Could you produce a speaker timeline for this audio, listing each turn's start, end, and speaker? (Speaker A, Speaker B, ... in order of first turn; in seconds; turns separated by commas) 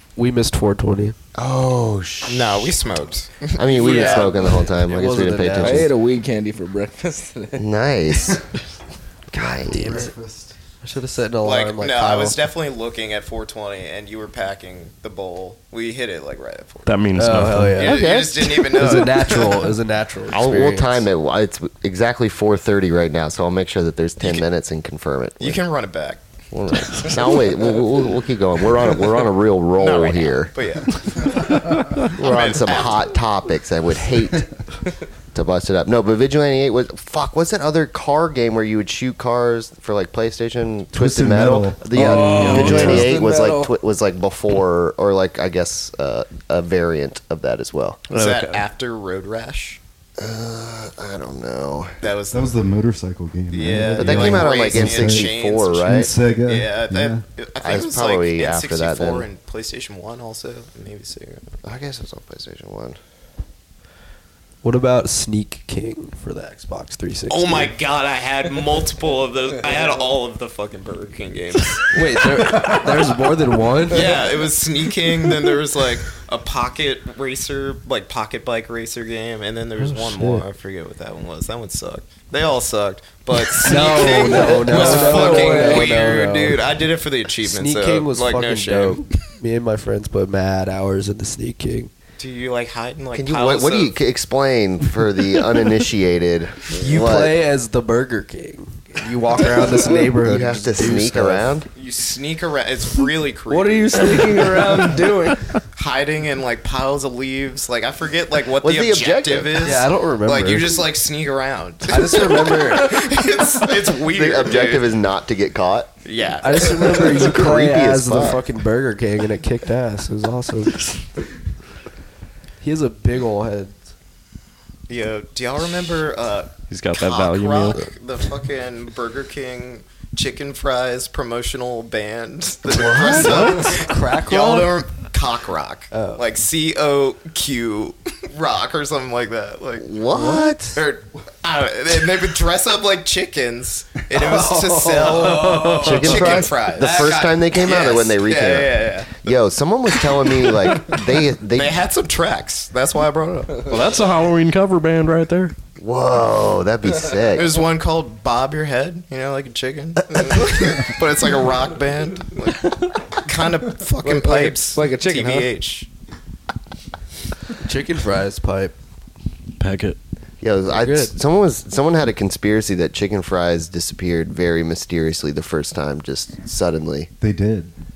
Speaker A: 0.1-1.1, Speaker B: 1.3-2.8, Speaker C: 2.3-4.6, Speaker B: 3.5-5.9, Speaker A: 3.8-5.9, Speaker D: 5.6-7.6, Speaker B: 7.6-8.4, Speaker B: 9.3-10.1, Speaker A: 9.3-10.1, Speaker E: 9.7-10.5, Speaker A: 10.8-12.4, Speaker C: 11.4-16.9, Speaker F: 16.9-18.0, Speaker A: 17.1-21.1, Speaker C: 17.8-19.7, Speaker B: 18.0-18.3, Speaker B: 20.3-25.6, Speaker C: 25.4-26.2, Speaker B: 26.5-30.5, Speaker C: 29.8-33.1, Speaker B: 32.1-34.5, Speaker B: 35.3-48.0, Speaker E: 40.9-43.1, Speaker D: 42.0-43.7, Speaker F: 42.1-43.0, Speaker F: 48.1-48.6, Speaker C: 48.1-49.8, Speaker B: 50.2-52.0, Speaker C: 52.0-52.6, Speaker E: 52.3-55.3, Speaker C: 53.5-61.5, Speaker B: 54.0-56.1, Speaker E: 55.8-57.2, Speaker B: 57.6-59.3, Speaker B: 61.6-63.0, Speaker A: 64.6-67.7, Speaker C: 67.3-73.1, Speaker A: 71.9-74.2, Speaker C: 73.9-89.1, Speaker A: 79.8-80.5, Speaker A: 83.5-86.7, Speaker D: 84.4-86.1, Speaker A: 87.4-91.9, Speaker C: 92.2-94.0, Speaker B: 93.1-97.3, Speaker A: 96.7-101.6, Speaker B: 100.1-101.7, Speaker C: 101.7-104.2, Speaker D: 103.5-105.4, Speaker C: 105.7-114.9, Speaker B: 108.6-109.8, Speaker A: 109.6-110.8, Speaker A: 111.8-113.0, Speaker B: 113.8-115.9, Speaker C: 116.0-117.3, Speaker A: 116.4-120.9, Speaker B: 116.9-118.4, Speaker A: 122.6-123.8, Speaker C: 124.9-139.9, Speaker F: 126.7-127.8, Speaker B: 132.7-133.7, Speaker A: 132.9-134.8, Speaker A: 135.9-136.2, Speaker B: 139.8-140.8, Speaker A: 140.1-140.5, Speaker C: 140.7-149.3, Speaker A: 144.1-147.4, Speaker F: 145.4-146.0, Speaker B: 145.8-151.8, Speaker C: 150.4-150.8, Speaker C: 151.5-153.8, Speaker F: 153.7-155.5, Speaker B: 155.8-157.5, Speaker C: 157.3-165.9, Speaker D: 164.0-165.5, Speaker A: 167.6-168.7, Speaker F: 169.6-170.0, Speaker B: 170.4-177.1, Speaker A: 170.7-171.1, Speaker E: 177.2-177.7